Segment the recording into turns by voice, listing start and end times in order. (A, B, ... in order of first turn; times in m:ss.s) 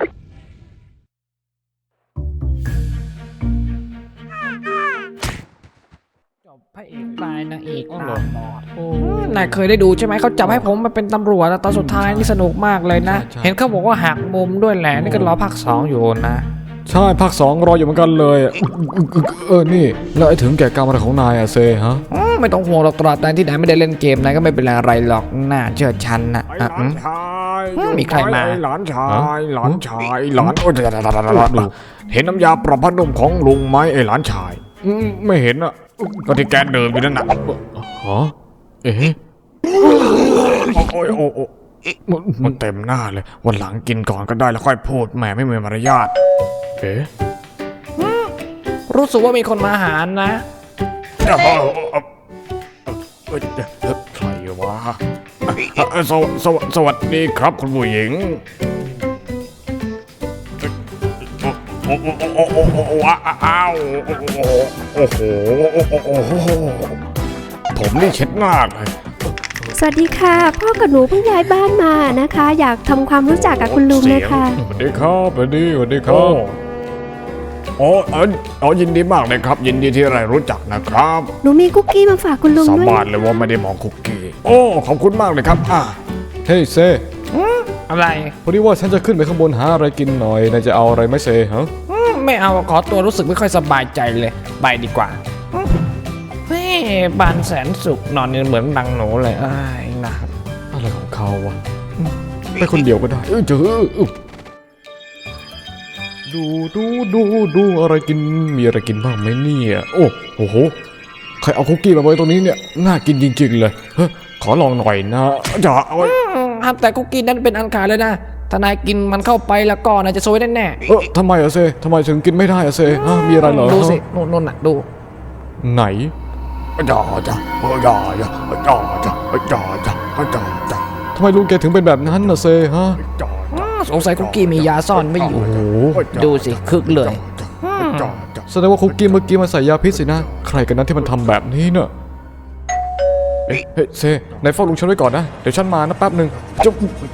0:06.6-0:16.5 A
0:08.8-0:09.4 B
0:11.7-0:12.3 B
0:12.9-0:13.6 B
0:14.9-0:15.3 B
0:16.9-0:22.0 B
0:22.1-0:27.0 A
0:26.5-0:37.4 C
0:27.7-0:28.6 A
0:29.1-0:29.8 B
0:31.3-0:31.7 B
0:37.7-0:39.2 B
0:40.1-0:41.5 C
0:42.1-0:42.6 B
0:42.4-0:46.1 C
0:48.0-0:48.3 A
0:48.9-0:50.4 A
0:51.2-0:52.0 C
0:53.3-0:58.4 C
1:01.4-1:07.0 C
1:07.7-1:08.9 C
1:09.8-1:14.6 D
1:13.4-1:15.1 C
1:14.8-1:16.4 B
1:16.0-1:16.6 C
1:17.8-1:21.3 C
1:21.4-1:23.0 D
1:22.6-1:26.0 C
1:26.4-1:27.0 B
1:27.3-1:28.3 A
1:28.4-1:31.7 B
1:31.9-1:35.7 A
1:36.5-1:40.3 A
1:40.7-1:44.1 B
1:46.3-1:50.7 B
1:51.4-1:56.2 B
1:56.0-2:00.8 A
2:00.9-2:04.0 B
2:03.4-2:04.9 A
2:05.6-2:06.1 B
2:06.8-2:10.8 C
2:11.1-2:13.0 B
2:13.1-2:18.4 C
2:13.5-2:18.2 A
2:15.3-2:16.1 B
2:18.5-2:21.9 B
2:23.5-2:26.6 B